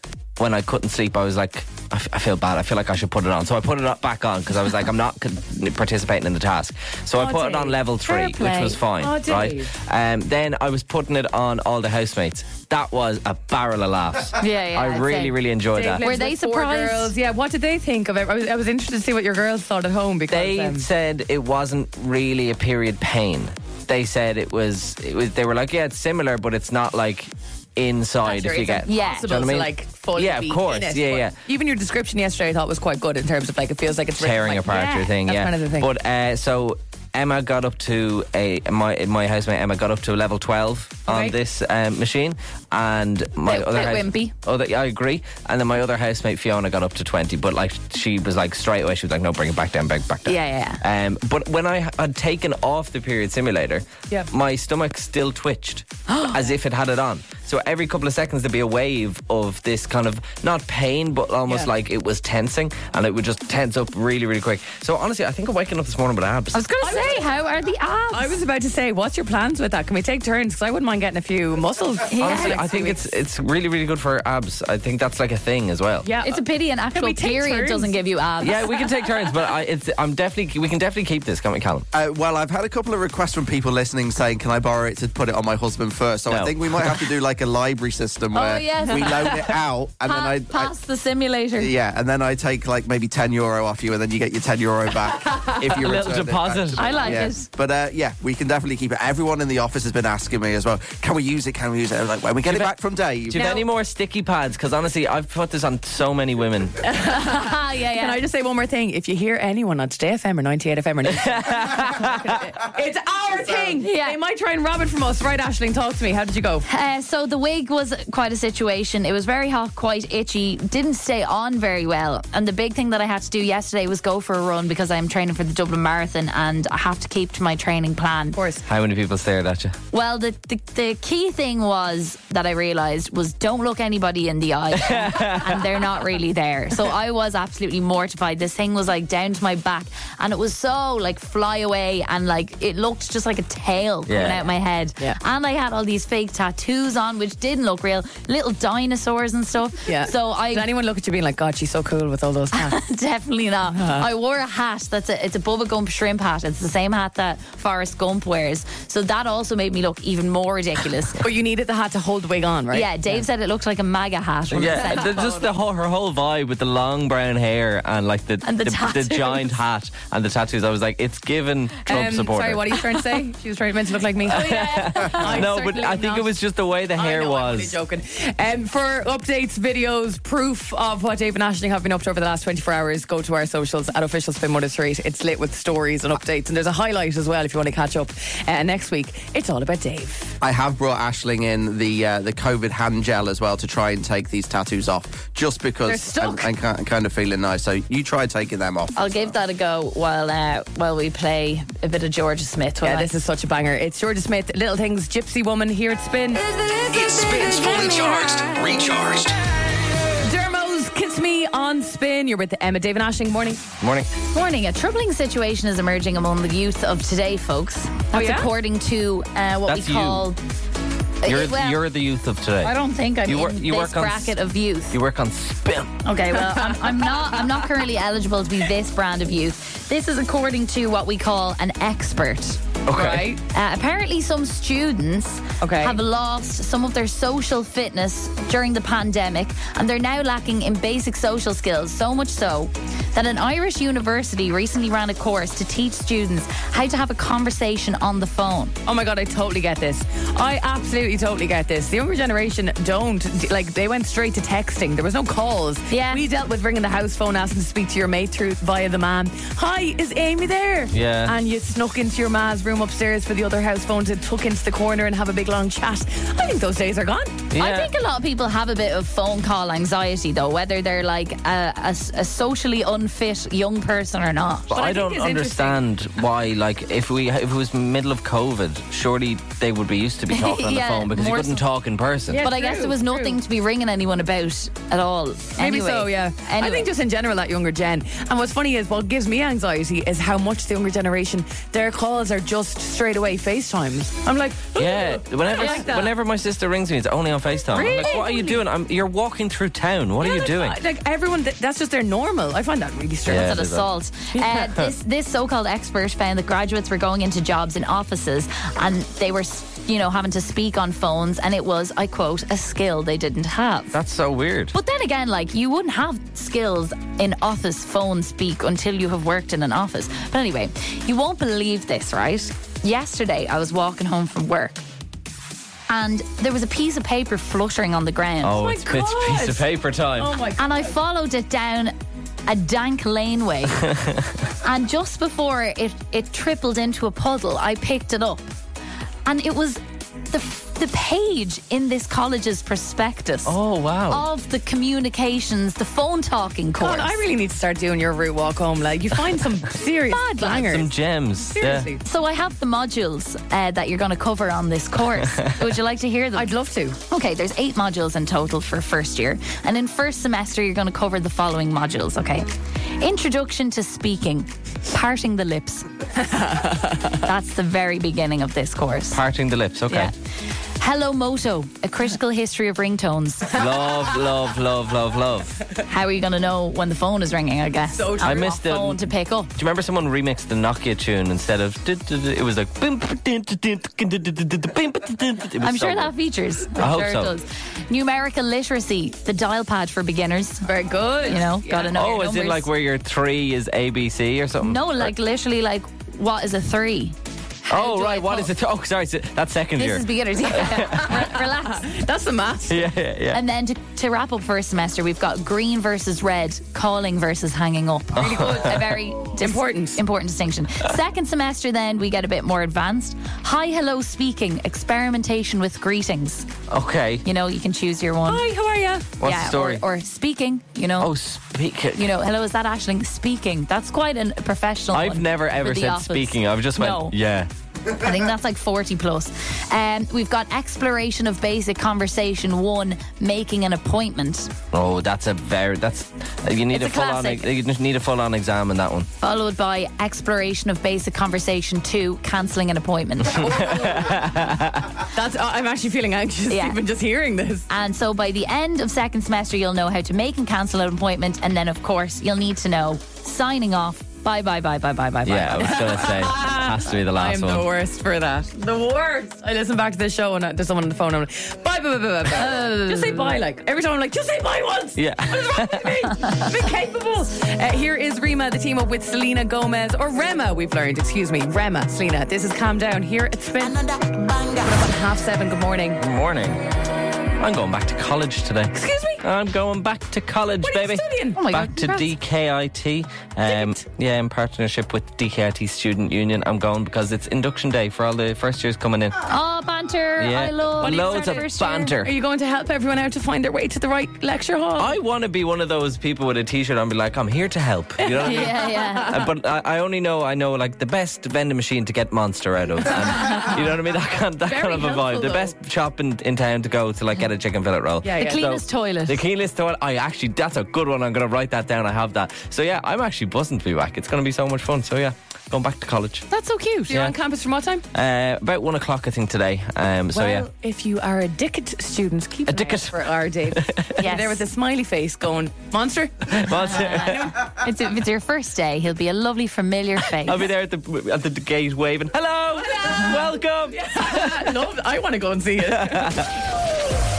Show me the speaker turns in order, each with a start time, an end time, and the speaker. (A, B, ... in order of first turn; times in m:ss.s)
0:00.4-0:16.0 A
0:07.2-0:07.8 B
0:08.0-0:08.8 C
0:08.9-0:09.7 B
0:14.4-0:15.3 C
0:15.7-0:20.9 B
0:16.0-0:17.1 C
0:20.3-0:31.4 A
0:28.2-0:35.9 B
0:28.8-0:29.2 C
0:34.2-1:06.6 A
0:43.4-0:44.3 C
0:50.2-0:50.8 C
0:56.1-0:56.4 C
1:06.5-1:08.3 C
1:06.8-1:07.3 B
1:08.1-1:13.0 B
1:12.1-1:12.6 C
1:12.2-1:16.1 A
1:16.0-1:16.4 B
1:16.2-1:18.6 C
1:16.9-1:18.7 B
1:18.4-1:21.9 A
1:21.9-1:30.7 D
1:26.3-1:27.1 A
1:28.3-1:29.4 C
1:30.0-1:31.7 C
1:31.6-1:43.4 D
1:35.6-1:37.3 A
1:36.8-1:37.5 C
1:42.4-1:42.7 A
1:43.3-1:46.8 A
1:43.3-1:43.6 B
1:46.8-1:56.7 B
1:47.1-1:48.2 C
1:51.1-1:52.4 A
1:53.8-1:54.2 C
1:56.6-2:08.4 C
2:08.3-2:08.6 B
2:08.6-2:09.8 A
2:09.9-2:30.7 C
2:14.7-2:15.8 A
2:24.1-2:24.4 A
2:29.9-2:32.8 B
2:32.5-2:41.2 C
2:33.8-2:34.0 B
2:41.2-2:43.2 B
2:42.7-2:45.4 C
2:44.5-2:52.8 A
2:44.6-2:45.4 B
2:48.4-2:49.6 C
2:51.8-2:56.3 B
2:54.2-2:57.8 A
2:56.9-3:10.4 B
3:10.4-3:19.3 D
3:15.8-3:16.5 B
3:19.0-3:23.1 C
3:22.8-3:26.5 B
3:26.9-3:29.4 E
3:30.2-3:33.6 B
3:33.8-3:34.1 A
3:34.3-3:40.4 C
3:38.1-3:38.5 B
3:39.6-3:40.3 A
3:41.2-3:41.8 C
3:41.2-3:44.4 A
3:42.6-3:45.0 C
3:44.9-3:46.0 A
3:46.0-3:52.6 C
3:46.5-3:47.1 B
3:52.8-3:53.4 A
3:52.9-3:53.4 B
3:53.5-4:08.7 C
3:55.6-3:56.0 B
4:08.8-4:27.4 B
4:15.9-4:16.2 C
4:20.9-4:21.4 A
4:27.5-4:27.9 A
4:27.6-4:34.7 C
4:34.7-4:42.5 A
4:34.7-4:35.8 B
4:40.3-4:41.6 C
4:42.3-4:43.4 B
4:42.4-4:46.9 C
4:45.6-4:56.1 B
4:54.7-5:00.8 A
4:57.7-4:58.6 B
4:57.8-4:58.4 C
5:00.2-5:03.5 B
5:03.2-5:03.9 A
5:03.3-5:13.9 C
5:04.5-5:04.9 A
5:13.9-5:14.7 A
5:14.7-5:24.8 C
5:25.9-5:28.6 C
5:28.4-5:30.4 A
5:28.5-5:29.6 B
5:30.2-5:31.0 B
5:30.6-5:31.9 C
5:32.4-5:33.8 C
5:33.9-5:34.3 A
5:34.6-5:38.4 C
5:39.2-5:43.6 C
5:43.4-5:44.2 A
5:44.1-5:47.2 C
5:46.8-5:50.9 B
5:50.1-5:50.6 C
5:50.4-5:51.9 A
5:51.4-5:52.0 B
5:52.0-5:56.5 C
5:56.3-5:57.0 B
5:57.1-6:05.9 C
6:06.2-6:07.2 B
6:07.2-6:09.2 C
6:09.1-6:10.1 A
6:10.8-6:13.6 C
6:13.5-6:15.6 A
6:15.9-6:19.5 C
6:17.9-6:18.5 B
6:18.2-6:26.1 A
6:25.6-6:30.7 C
6:26.7-6:27.3 A
6:30.6-6:31.9 B
6:31.2-6:32.7 C
6:31.9-6:35.1 A
6:34.6-6:38.5 C
6:37.7-6:41.2 A
6:39.8-6:41.9 C
6:40.9-6:42.9 B
6:42.7-6:43.4 A
6:43.3-6:56.5 C
6:48.1-6:49.0 A
6:48.2-6:48.8 B
6:49.3-6:50.0 B
6:56.7-6:57.2 A
6:57.2-6:58.4 C
6:58.3-6:59.1 B
6:59.2-6:59.8 A
6:59.2-7:01.1 C
7:01.0-7:02.1 A
7:01.9-7:07.1 C
7:04.9-7:07.5 A
7:08.0-7:14.5 C
7:14.7-7:19.1 A
7:16.7-7:17.5 C
7:19.2-7:23.6 C
7:23.3-7:24.9 A
7:23.4-7:24.3 B
7:25.1-7:27.7 B
7:26.5-7:26.8 C
7:27.7-7:36.1 C
7:35.2-7:37.7 A
7:35.7-7:56.0 B
7:42.5-7:43.3 C
7:45.0-7:46.0 A
7:56.0-7:56.6 A
7:57.4-8:09.2 A
7:58.7-7:59.2 B
8:00.6-8:01.4 B
8:01.4-8:02.1 C
8:03.4-8:03.8 B
8:09.3-8:11.9 C
8:10.2-8:12.1 A
8:10.8-8:15.0 B
8:14.8-8:36.3 A
8:18.0-8:19.1 B
8:18.2-8:19.2 C
8:24.4-8:25.5 B
8:28.0-8:28.5 B
8:28.2-8:29.2 C
8:36.3-8:37.8 B
8:36.9-8:37.2 A
8:37.9-8:40.5 A
8:40.1-8:47.1 B
8:42.5-8:44.0 A
8:44.0-8:44.4 C
8:46.3-8:47.4 A
8:46.5-8:50.5 C
8:50.1-8:54.6 A
8:52.6-8:56.4 B
8:55.6-8:56.3 A